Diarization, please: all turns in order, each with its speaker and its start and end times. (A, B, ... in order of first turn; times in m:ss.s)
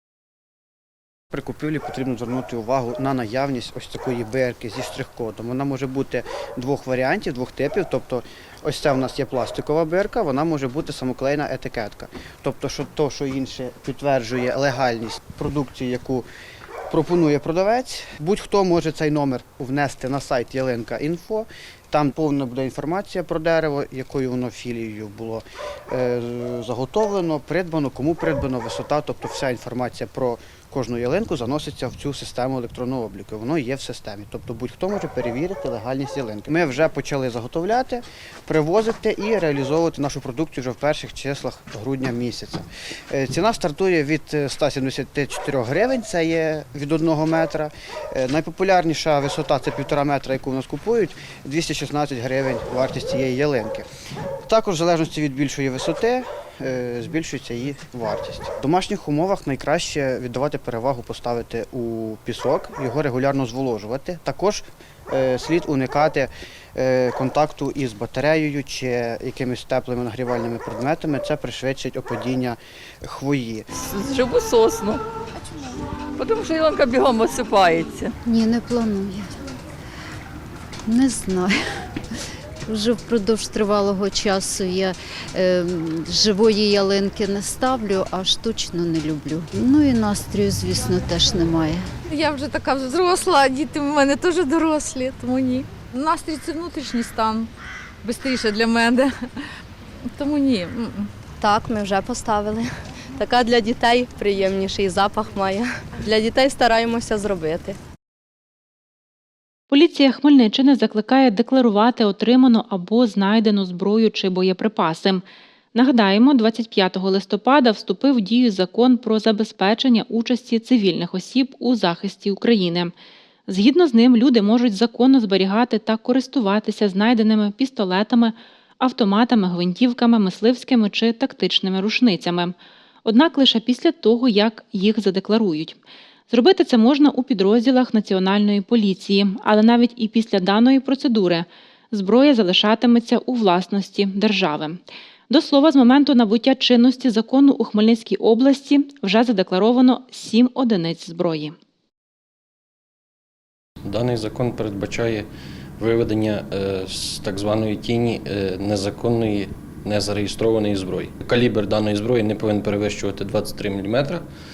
0:01.3-0:16.3 A
0:16.9-0:53.9 A
0:54.5-1:13.7 A
1:13.8-1:15.0 B
1:16.2-1:18.1 B
1:18.3-1:19.3 C
1:20.9-1:21.5 C
1:22.7-1:31.9 C
1:32.1-1:37.5 D
1:38.0-1:39.4 D
1:40.2-1:41.1 D
1:41.4-1:42.7 E
1:43.2-1:47.8 E
1:49.7-1:55.2 F
1:55.8-2:02.9 F
2:03.5-2:15.8 F
2:16.3-2:31.5 F
2:33.8-2:35.3 G
2:35.8-2:44.2 G